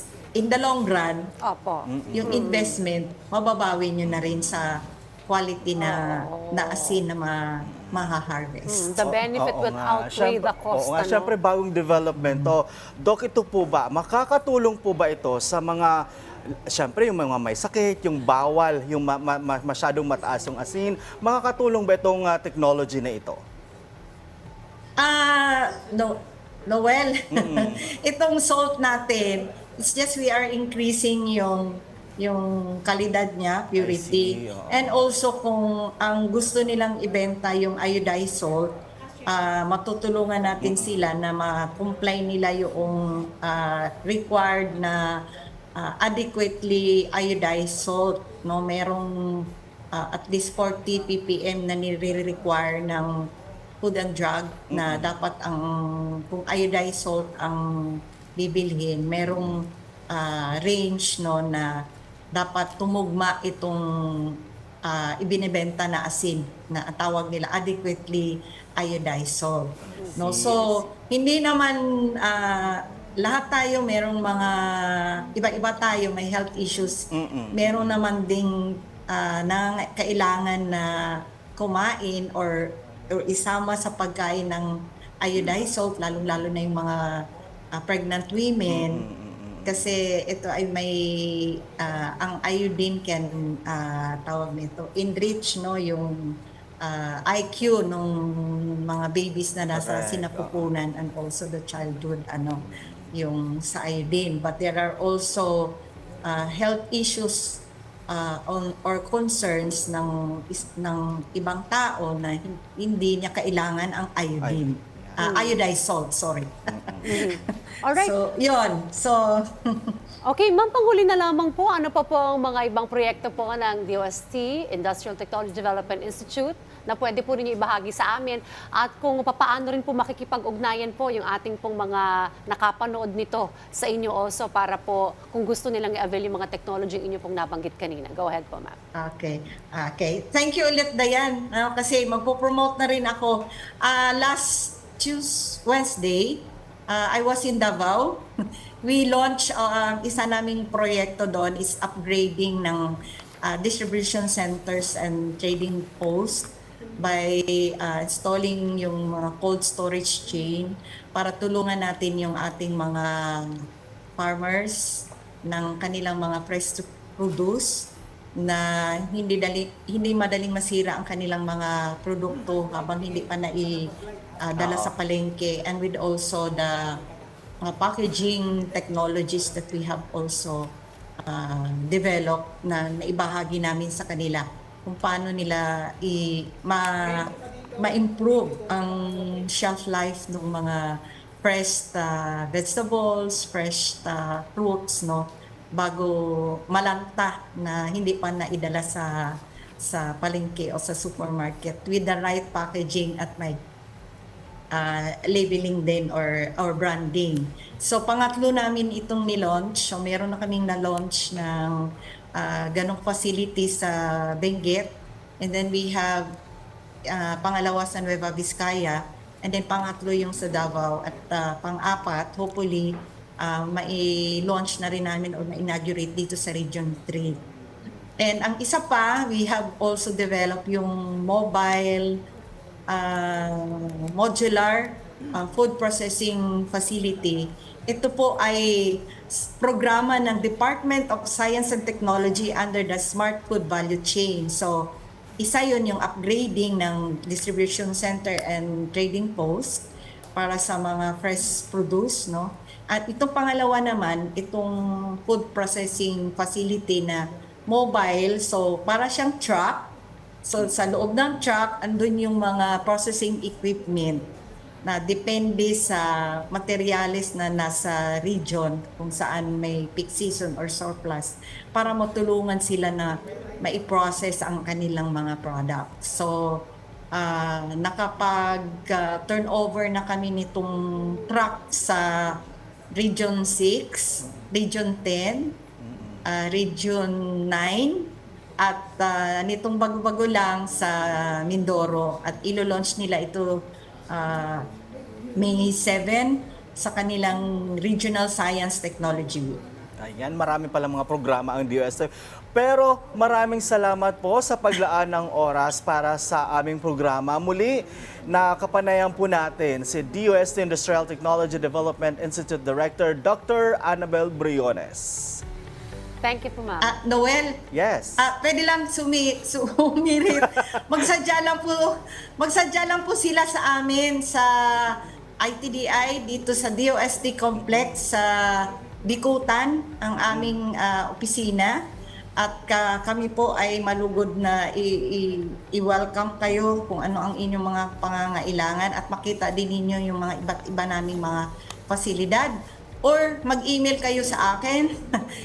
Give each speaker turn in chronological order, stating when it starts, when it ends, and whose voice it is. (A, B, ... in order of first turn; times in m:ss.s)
0:00.4-0:01.2 A
0:01.4-0:02.7 B
0:01.9-0:02.4 C
0:02.1-0:08.9 A
0:04.0-0:04.5 C
0:05.8-0:07.0 B
0:07.8-0:08.1 C
0:08.7-0:11.3 B
0:09.0-0:15.9 C
0:12.2-0:12.5 A
0:16.7-0:23.4 C
0:25.0-0:26.1 A
0:26.7-0:38.7 A
0:27.3-0:27.9 C
0:33.7-0:35.0 C
0:39.3-0:45.0 A
0:40.6-0:41.0 C
0:45.8-0:49.1 A
0:49.9-0:53.1 A
0:53.8-1:01.7 A
0:54.7-0:55.1 C
0:59.2-0:59.5 C
1:02.3-1:03.8 A
1:04.8-1:18.5 A
1:10.2-1:10.8 C
1:17.1-1:18.0 C
1:19.1-1:24.7 A
1:25.2-1:27.0 A
1:27.7-1:29.0 A
1:28.7-1:29.9 C
1:29.7-1:36.3 A
1:36.8-1:42.6 A
1:39.7-1:40.7 C
1:43.1-1:45.7 A
1:46.2-1:56.5 A
1:54.4-1:55.2 C
1:55.2-1:55.6 B
1:56.7-1:57.1 C
1:57.0-1:58.1 B
1:57.9-1:59.9 A
2:00.2-2:18.8 B
2:19.0-2:28.2 A
2:28.8-2:32.8 A
2:33.4-2:43.4 A
2:44.2-2:47.9 A
2:48.4-2:53.8 A
2:54.4-2:57.0 A
2:54.6-2:54.9 C
2:57.6-3:00.6 A
3:01.2-3:16.2 A
3:16.7-3:19.1 A
3:19.8-3:23.6 A
3:24.7-3:31.7 A
3:32.4-3:34.9 A
3:35.4-3:36.3 A
3:37.1-3:47.4 A
3:48.2-3:52.2 A
3:52.9-4:04.8 A
4:05.4-4:09.8 A
4:10.4-4:14.7 A
4:15.2-4:19.9 A
4:20.4-4:24.2 A
4:24.8-4:36.6 A
4:37.1-4:42.3 A
4:42.9-4:45.5 A
4:45.8-4:46.2 C
4:46.2-4:48.0 A
4:48.6-4:53.5 A
4:54.1-4:54.6 A
4:55.4-4:59.6 A
5:00.0-5:15.4 C
5:16.2-5:16.9 B
5:16.8-5:17.6 A
5:17.7-5:18.2 C
5:18.2-5:31.7 A
5:32.4-5:42.5 A
5:43.0-5:44.9 A